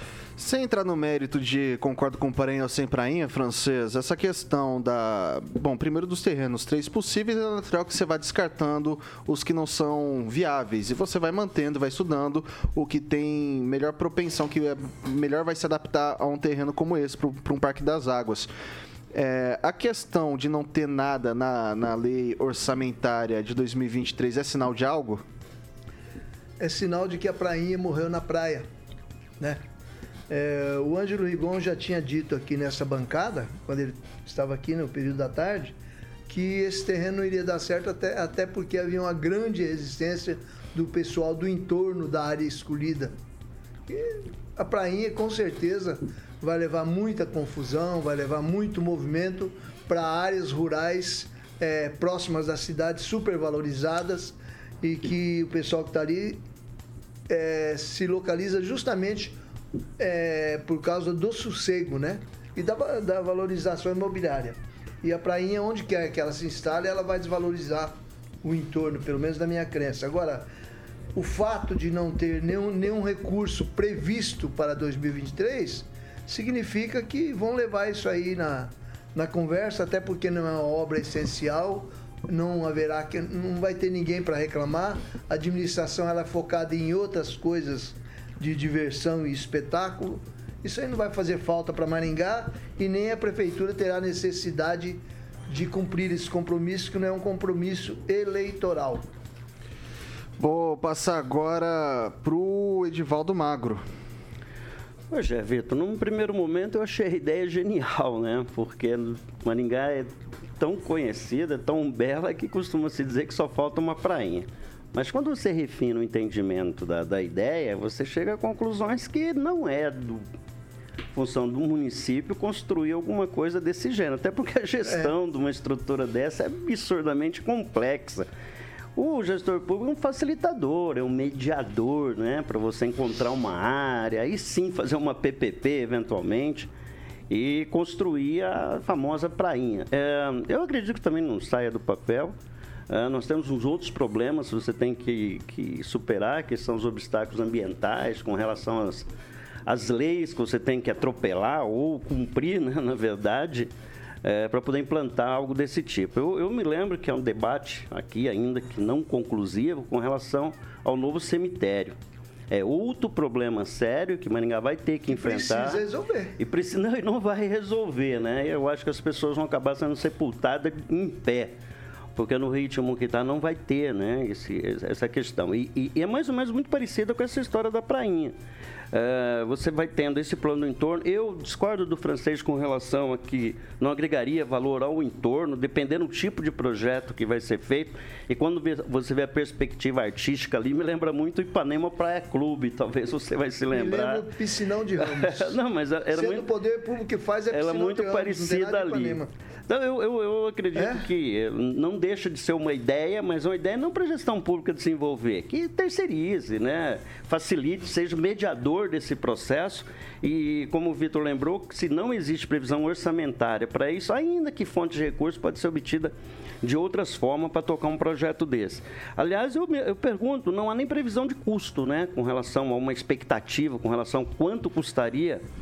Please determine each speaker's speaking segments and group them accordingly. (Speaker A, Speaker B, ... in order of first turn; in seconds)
Speaker A: 0.4-18.5, 19.1-25.2, 100.4-103.8
Speaker B: 26.6-28.6, 30.3-35.8, 36.3-43.1, 43.9-56.4, 57.3-59.4, 60.0-70.5, 71.2-99.0, 124.8-125.1, 165.1-166.3, 193.7-195.6, 196.1-199.3, 200.7-201.0
Speaker C: 105.1-120.2, 121.1-128.3, 128.9-136.7, 137.3-142.3, 142.9-149.1, 149.7-153.7, 154.2-162.0, 162.5-165.8, 166.4-171.5, 172.2-178.3, 178.9-194.3, 195.0-196.5, 197.5-225.4